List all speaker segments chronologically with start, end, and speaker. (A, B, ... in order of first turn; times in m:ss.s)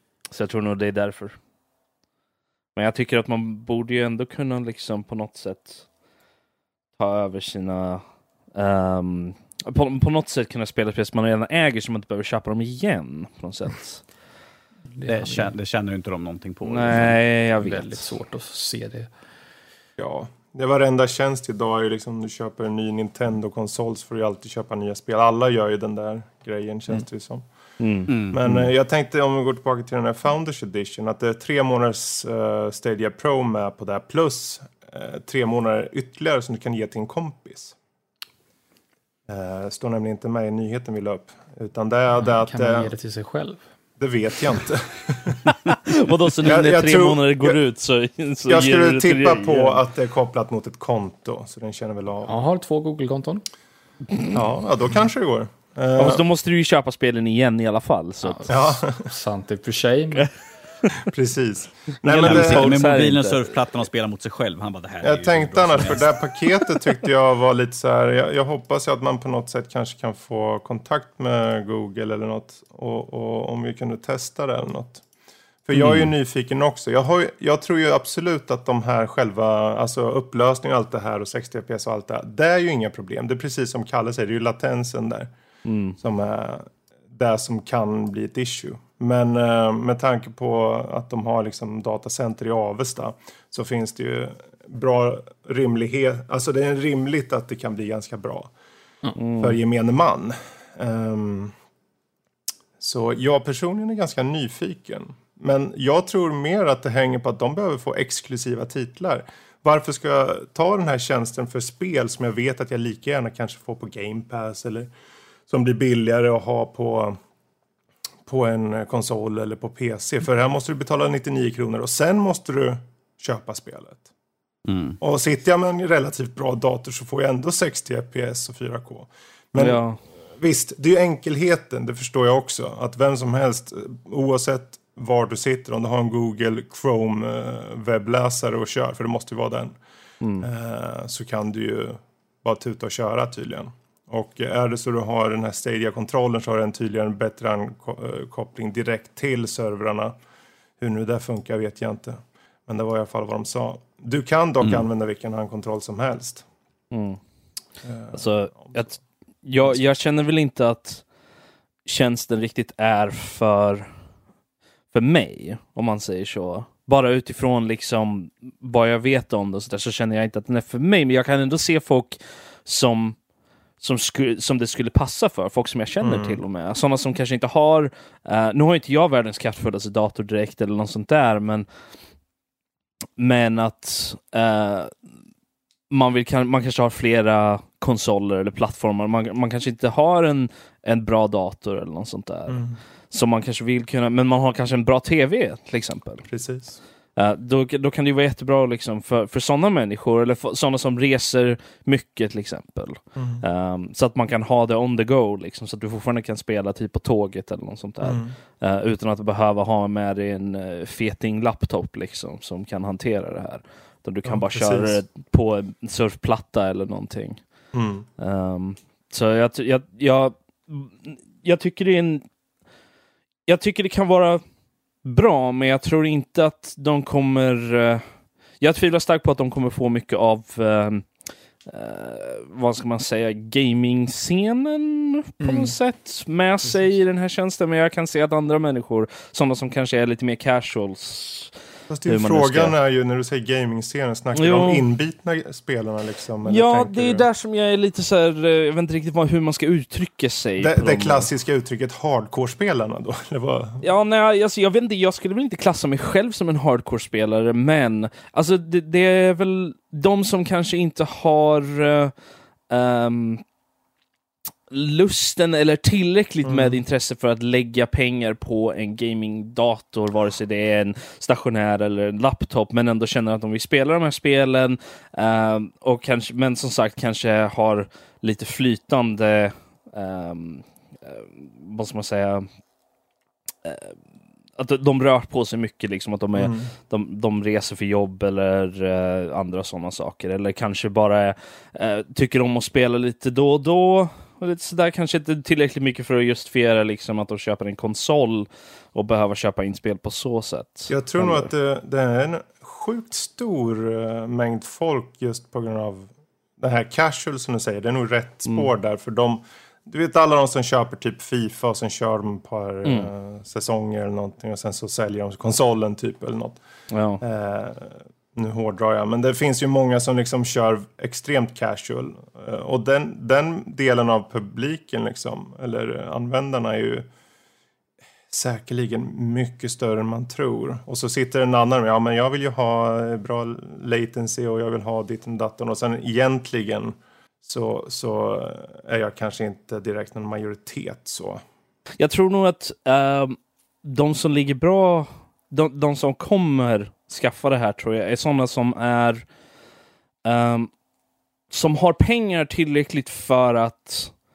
0:00.3-0:01.4 A
0:02.7-0:05.8 A
0:07.0-0:14.0 A
0:14.9-0:15.5 B
0:15.0-0:17.2 C
0:16.6-0:18.0 A
0:17.6-0:19.1 B
0:20.0-0:27.4 D
0:27.8-0:28.5 A
0:28.1-0:37.8 D
0:28.1-0:28.4 C
0:39.3-0:42.9 D
0:42.2-0:43.6 B
0:44.0-0:45.5 D
0:45.7-0:49.8 A
0:46.4-0:47.6 D
0:48.5-0:52.3 D
0:52.2-0:53.4 B
0:54.3-0:56.2 D
0:56.0-0:58.5 A
0:58.2-1:00.3 B
0:58.5-0:59.1 D
1:01.0-1:02.7 D
1:02.1-1:03.5 A
1:02.1-1:06.1 C
1:05.0-1:15.0 D
1:15.6-1:25.3 D
1:15.8-1:16.0 C
1:25.6-1:26.0 A
1:26.0-1:38.5 D
1:39.2-1:39.6 A
1:39.4-1:41.5 D
1:42.8-1:54.9 D
1:55.5-1:57.2 D
1:58.3-2:04.0 D
2:04.6-2:05.0 C
2:05.0-2:09.8 D
2:09.6-2:10.0 A
2:10.4-2:19.8 D
2:20.2-2:20.5 A
2:20.4-2:30.1 D
2:30.8-2:36.4 D
2:36.9-2:37.2 A
2:37.8-2:39.0 D
2:38.1-2:41.0 A
2:41.9-2:43.9 A
2:44.9-2:53.2 A
2:53.8-3:01.7 A
2:56.0-2:56.4 D
3:03.2-3:04.9 A
3:05.9-3:16.2 A
3:12.5-3:12.8 D
3:16.3-3:16.8 D
3:17.2-3:37.4 A
3:23.2-3:23.4 D
3:28.0-3:28.4 D
3:34.2-3:35.0 D
3:37.7-3:38.1 D
3:38.2-3:42.2 A
3:43.5-3:44.4 A
3:45.0-3:48.0 A
3:48.6-3:51.1 A
3:51.6-4:01.5 A
3:55.4-3:55.8 B
4:01.9-4:07.3 D
4:02.0-4:02.8 A
4:04.4-4:04.8 A
4:06.4-4:11.3 A
4:10.6-4:13.8 D
4:13.8-4:22.1 A
4:22.7-4:23.4 A
4:24.7-4:42.5 A
4:26.4-4:26.8 D
4:43.6-4:44.0 A
4:44.6-5:01.5 A
4:46.4-4:46.7 D
5:00.9-5:16.6 D
5:12.8-5:13.1 A
5:16.9-5:17.2 A
5:17.2-5:27.1 D
5:28.3-5:41.4 D
5:42.0-5:49.2 A
5:50.2-5:50.7 A
5:51.5-5:54.1 A